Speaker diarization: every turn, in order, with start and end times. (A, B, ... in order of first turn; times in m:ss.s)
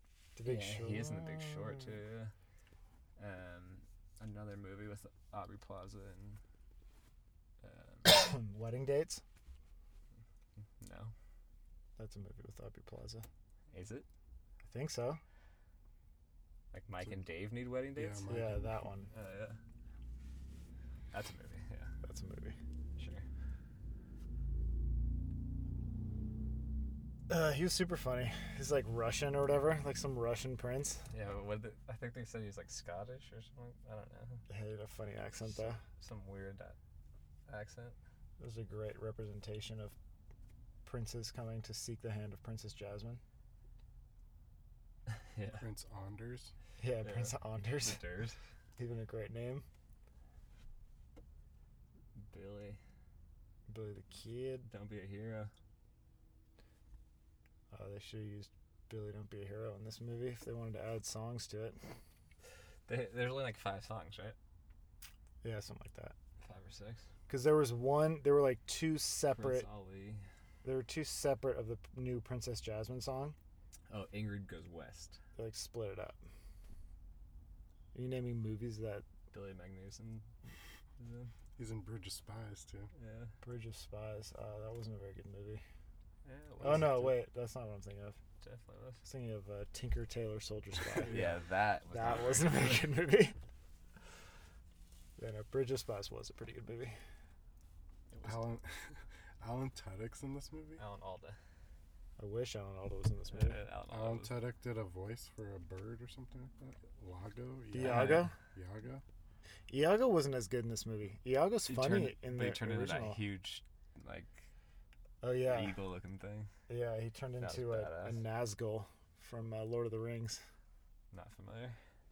0:00.4-0:01.9 A
0:00.4-0:02.3 B
0:03.2-0:06.4 B
0:07.6-0:08.2 B
0:08.1-0:09.2 A
0:10.8-0:11.1 B
0:12.0-0:13.3 A
0:13.7-0:14.1 B
0:14.7-0:15.2 A
0:16.7-0:18.3 B
0:18.0-0:18.8 C
0:18.3-0:19.1 A
0:19.1-0:19.6 B
0:21.1-0:21.9 B
0:22.0-0:22.6 A
0:23.0-0:23.3 B
0:27.3-0:31.1 A
0:31.1-0:34.4 B
0:34.5-0:35.8 A
0:35.4-0:36.8 B
0:37.5-0:38.0 B
0:38.4-0:40.0 A
0:40.8-0:43.2 A
0:45.1-0:45.6 B
0:45.6-0:46.5 C
0:46.8-0:48.0 A
0:47.0-0:48.4 B
0:48.8-0:49.7 A
0:52.2-0:52.8 B
0:53.7-0:54.7 A
0:54.7-0:55.5 B
0:57.7-1:01.8 A
1:02.9-1:04.4 B
1:05.4-1:06.2 A
1:06.4-1:07.1 B
1:07.3-1:09.7 A
1:09.4-1:10.2 B
1:10.6-1:13.4 A
1:13.9-1:15.2 B
1:15.4-1:16.2 A
1:17.9-1:19.1 A
1:19.3-1:20.3 B
1:21.0-1:21.3 B
1:21.6-1:22.9 C
1:23.0-1:23.3 B
1:23.4-1:25.6 A
1:26.2-1:27.2 B
1:26.6-1:28.2 A
1:26.7-1:26.9 C
1:28.4-1:29.0 B
1:29.0-1:31.3 A
1:31.0-1:33.0 B
1:31.0-1:31.4 C
1:31.9-1:33.4 A
1:35.2-1:37.0 A
1:38.1-1:38.5 B
1:38.2-1:40.8 C
1:40.8-1:41.4 B
1:42.2-1:43.6 A
1:43.3-1:44.4 B
1:43.9-1:49.0 C
1:47.7-1:48.4 A
1:47.8-1:48.3 B
1:49.7-1:53.2 A
1:51.7-1:54.5 B
1:55.2-1:55.8 A
1:55.4-1:56.5 B
1:56.7-2:00.4 A
1:57.4-1:58.2 B
2:01.1-2:01.8 B